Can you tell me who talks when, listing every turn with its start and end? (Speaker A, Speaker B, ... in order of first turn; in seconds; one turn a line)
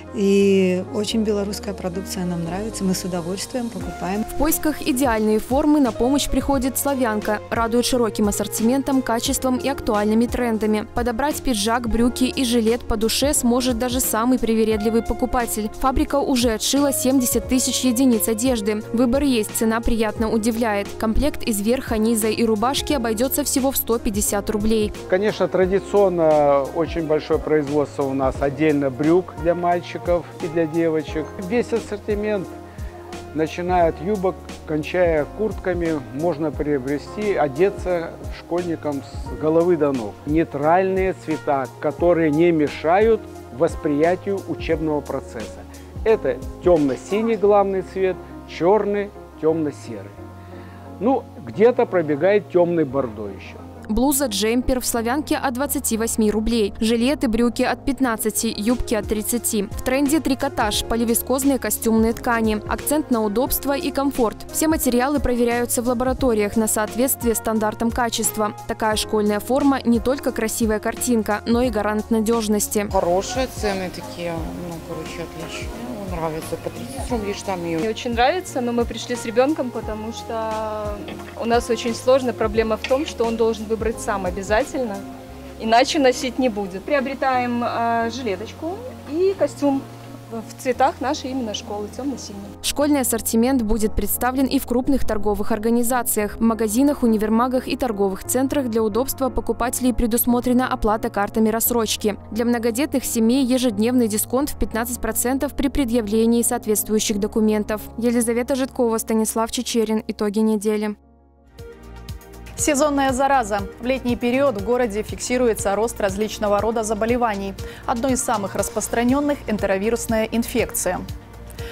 Speaker A: 0.4-4.1
Speaker B: 4.3-24.9
Speaker C: 25.1-32.5
Speaker C: 33.3-50.1
Speaker C: 51.0-53.6
Speaker B: 53.9-72.9
Speaker D: 72.9-77.9
Speaker E: 77.8-85.0
Speaker E: 85.6-92.5
Speaker B: 92.6-111.0
Speaker F: 112.6-121.0